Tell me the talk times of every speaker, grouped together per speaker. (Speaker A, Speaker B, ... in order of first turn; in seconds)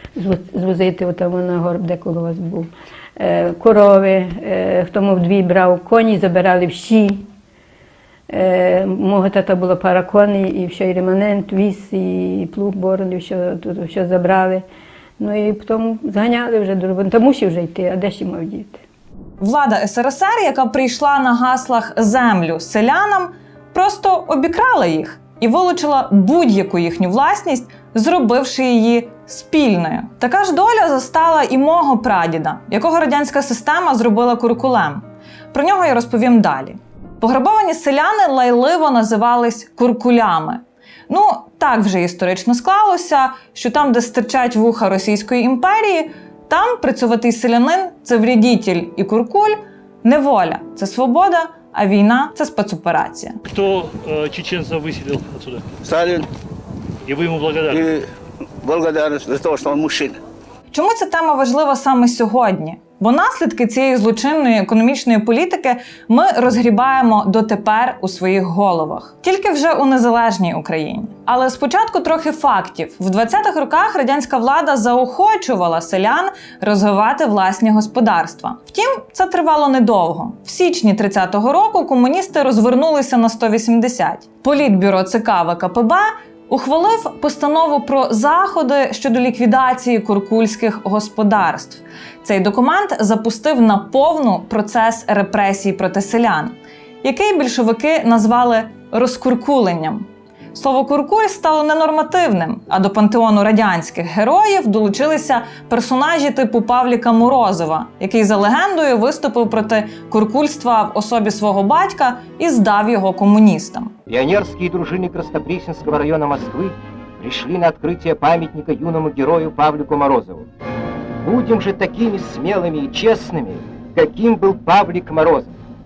Speaker A: 0.1-7.2, 8.3-14.6, 15.2-18.8
Speaker B: 19.4-53.4, 60.7-113.9
Speaker C: 53.5-55.8, 57.1-57.9
Speaker D: 55.8-56.3, 57.7-58.0, 58.6-60.2
Speaker E: 114.1-120.5, 121.2-125.6